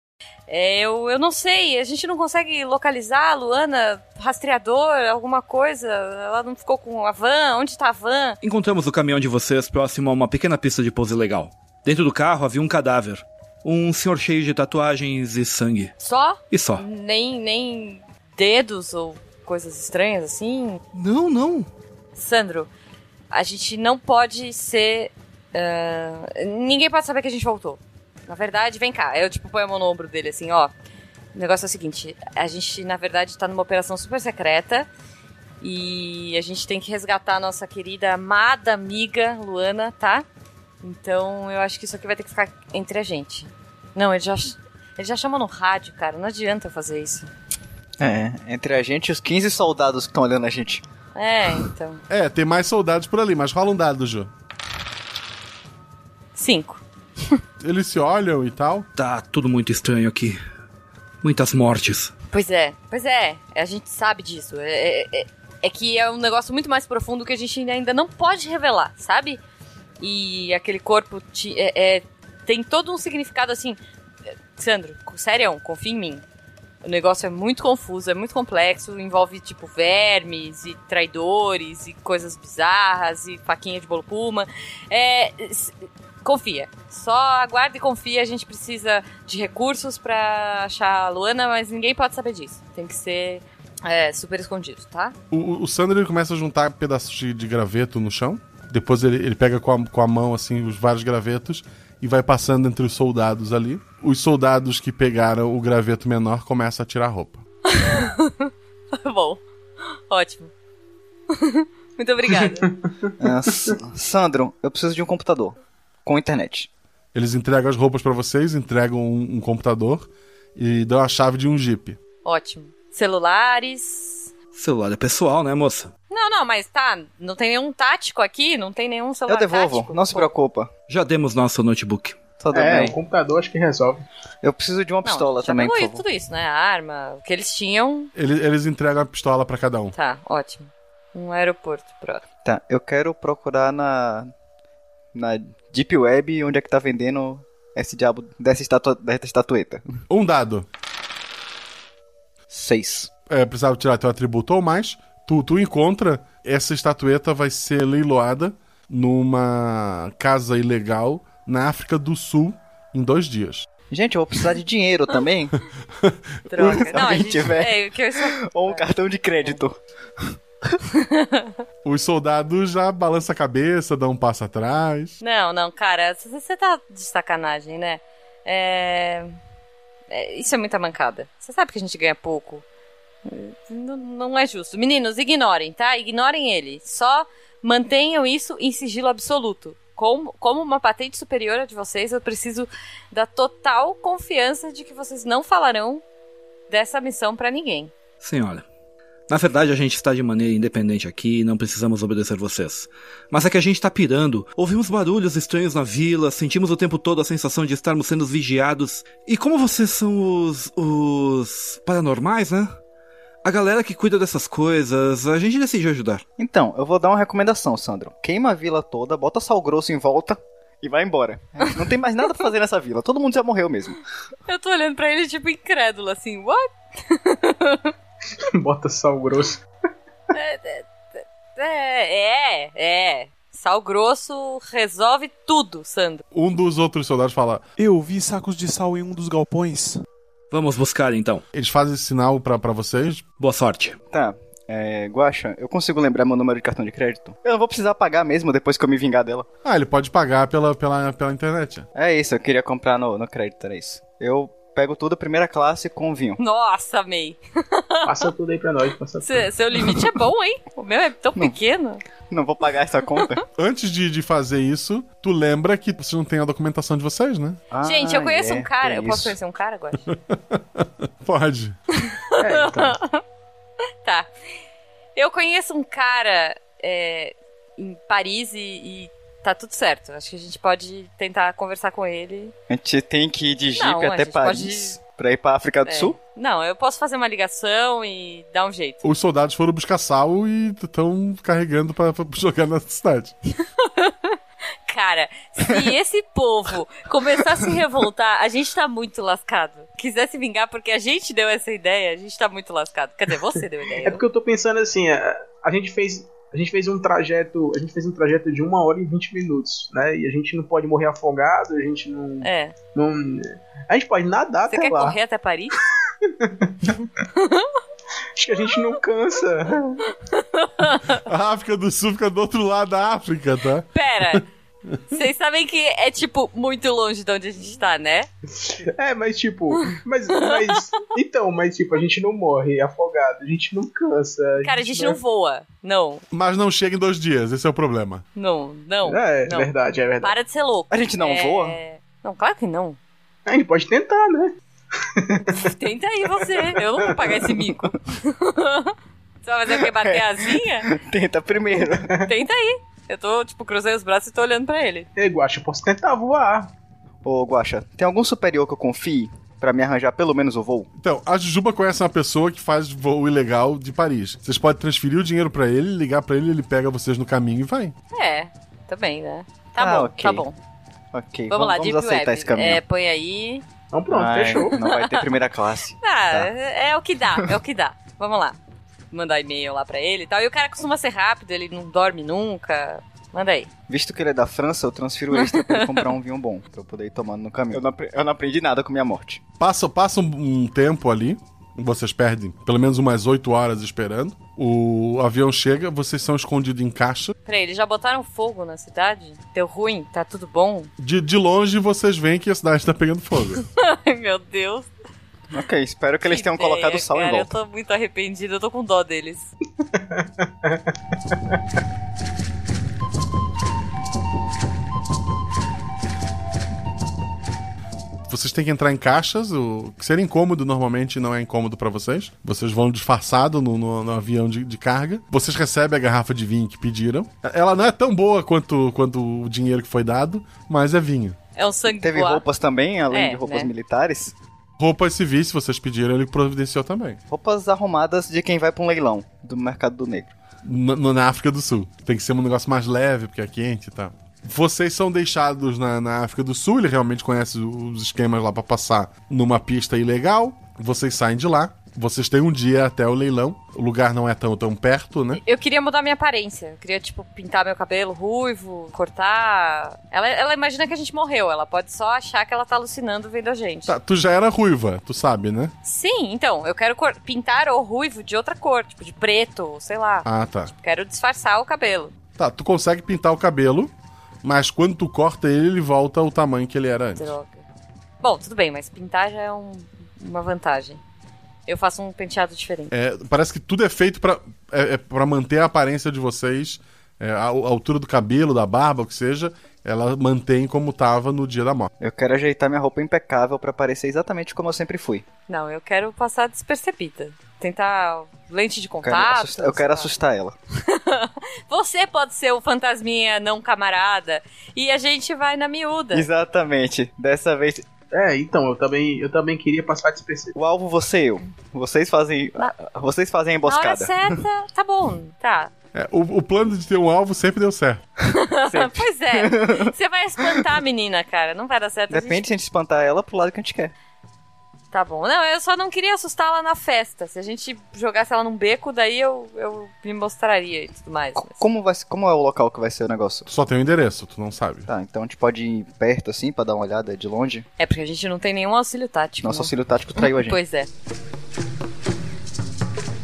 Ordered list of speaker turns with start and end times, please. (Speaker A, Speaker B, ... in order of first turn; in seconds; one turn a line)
Speaker A: 0.5-8.4
Speaker B: 8.4-15.9
Speaker A: 16.0-20.8
Speaker B: 16.5-16.8
Speaker B: 20.9-21.7
Speaker A: 22.1-22.7
Speaker A: 23.3-30.7
Speaker A: 31.3-34.9
Speaker A: 35.6-40.2
Speaker A: 40.8-47.3
Speaker C: 48.0-50.8
Speaker A: 51.1-52.0
Speaker D: 52.1-54.3
Speaker A: 56.3-57.4
Speaker D: 57.6-58.9
Speaker B: 59.0-60.4
Speaker B: 61.2-62.1
Speaker A: 62.3-69.4
Speaker A: 70.0-73.8
Speaker A: 74.5-76.2
Speaker A: 76.8-95.2
Speaker D: 95.3-107.4
Speaker A: 107.7-109.4
Speaker A: 110.1-110.5
Speaker A: 111.3-112.7
Speaker C: 113.2-116.7
Speaker D: 117.1-122.0
Speaker A: 122.2-124.3
Speaker B: 124.5-125.9
Speaker A: 126.1-130.3
Speaker C: 129.3-130.7
Speaker B: 130.9-132.2
Speaker C: 132.4-133.0
Speaker E: 132.5-134.0
Speaker C: 134.4-136.0
Speaker A: 135.0-138.1
Speaker D: 138.1-139.9
Speaker A: 139.9-142.2
Speaker C: 142.4-144.3
Speaker C: 145.1-149.9
Speaker D: 150.1-150.7
Speaker C: 152.5-153.1
Speaker D: 153.3-163.7
Speaker C: 163.9-165.5
Speaker D: 166.0-166.9
Speaker A: 166.5-168.8
Speaker C: 166.6-170.3
Speaker A: 170.9-171.5
Speaker D: 171.8-175.2
Speaker A: 175.2-179.3
Speaker A: 180.1-182.6
Speaker A: 183.2-196.0
Speaker A: 196.7-197.9
Speaker B: 198.2-198.6
Speaker B: 199.3-212.7
Speaker B: 213.4-216.2
Speaker C: 216.4-224.0
Speaker A: 224.5-227.9
Speaker E: 228.6-229.6
Speaker A: 230.3-236.2
Speaker D: 236.3-237.6
Speaker F: 237.8-240.0
Speaker B: 240.5-241.4
Speaker D: 241.5-243.3
Speaker B: 243.4-244.0
Speaker C: 244.1-249.5
Speaker D: 249.6-251.9
Speaker C: 251.9-256.4
Speaker A: 256.4-258.3
Speaker E: 258.1-260.0
Speaker A: 259.2-262.0
Speaker C: 262.3-263.4
Speaker D: 263.6-267.6
Speaker C: 267.7-269.4
Speaker A: 267.8-270.0
Speaker D: 270.1-271.8
Speaker A: 272.0-273.2
Speaker E: 272.4-272.9
Speaker A: 275.1-282.5
Speaker C: 282.7-286.2
Speaker A: 283.7-285.0
Speaker A: 285.9-289.0
Speaker D: 289.0-293.3
Speaker A: 293.8-304.2
Speaker E: 304.0-315.2
Speaker A: 312.4-312.7
Speaker A: 314.7-315.8
Speaker E: 316.4-316.7
Speaker A: 317.4-317.8
Speaker E: 318.4-320.0
Speaker A: 320.3-321.2
Speaker D: 321.2-324.4
Speaker A: 323.9-324.4
Speaker A: 325.1-328.3
Speaker E: 328.6-335.2
Speaker A: 329.8-330.8
Speaker A: 334.6-336.2
Speaker D: 336.3-338.2
Speaker A: 338.3-343.0
Speaker E: 339.0-340.3
Speaker C: 340.9-341.8
Speaker E: 343.5-345.6
Speaker A: 345.5-350.9
Speaker E: 346.4-347.4
Speaker C: 349.9-352.1
Speaker E: 351.9-352.3
Speaker A: 352.2-355.1
Speaker E: 355.1-356.7
Speaker C: 357.2-360.9
Speaker D: 361.0-367.9
Speaker A: 368.1-370.6
Speaker C: 369.8-370.4
Speaker C: 371.1-372.8
Speaker A: 371.5-373.6
Speaker E: 373.9-374.8
Speaker C: 374.1-376.5
Speaker A: 374.7-375.3
Speaker A: 376.0-378.6
Speaker A: 379.1-383.7
Speaker C: 383.9-389.4
Speaker A: 385.3-386.1
Speaker D: 389.6-397.3
Speaker A: 397.5-400.9
Speaker D: 401.0-403.6
Speaker A: 403.8-404.9
Speaker C: 405.5-407.5
Speaker A: 406.2-409.5
Speaker E: 409.9-410.8
Speaker D: 418.3-431.4
Speaker A: 431.6-432.4
Speaker C: 431.9-434.4
Speaker A: 433.1-433.7
Speaker D: 434.8-437.2
Speaker C: 437.3-440.3
Speaker D: 440.6-455.4
Speaker A: 455.3-463.9
Speaker D: 463.9-465.7
Speaker A: 465.8-470.3
Speaker D: 470.2-470.7
Speaker A: 470.8-472.1
Speaker D: 472.4-473.9
Speaker D: 474.4-477.3
Speaker A: 477.1-477.6
Speaker A: 478.2-481.0
Speaker A: 481.7-482.9
Speaker D: 482.9-491.9
Speaker C: 492.0-495.2
Speaker A: 495.5-500.1
Speaker C: 499.0-500.5
Speaker A: 500.9-506.3
Speaker C: 506.1-507.9
Speaker E: 508.1-510.5
Speaker C: 510.5-514.4
Speaker A: 513.6-515.7
Speaker D: 515.9-518.0
Speaker A: 518.3-522.5
Speaker C: 518.7-519.9
Speaker C: 522.1-523.9
Speaker A: 524.9-531.6
Speaker C: 531.4-533.5
Speaker D: 533.5-534.9
Speaker C: 534.9-537.7
Speaker A: 537.8-540.9
Speaker C: 539.4-540.6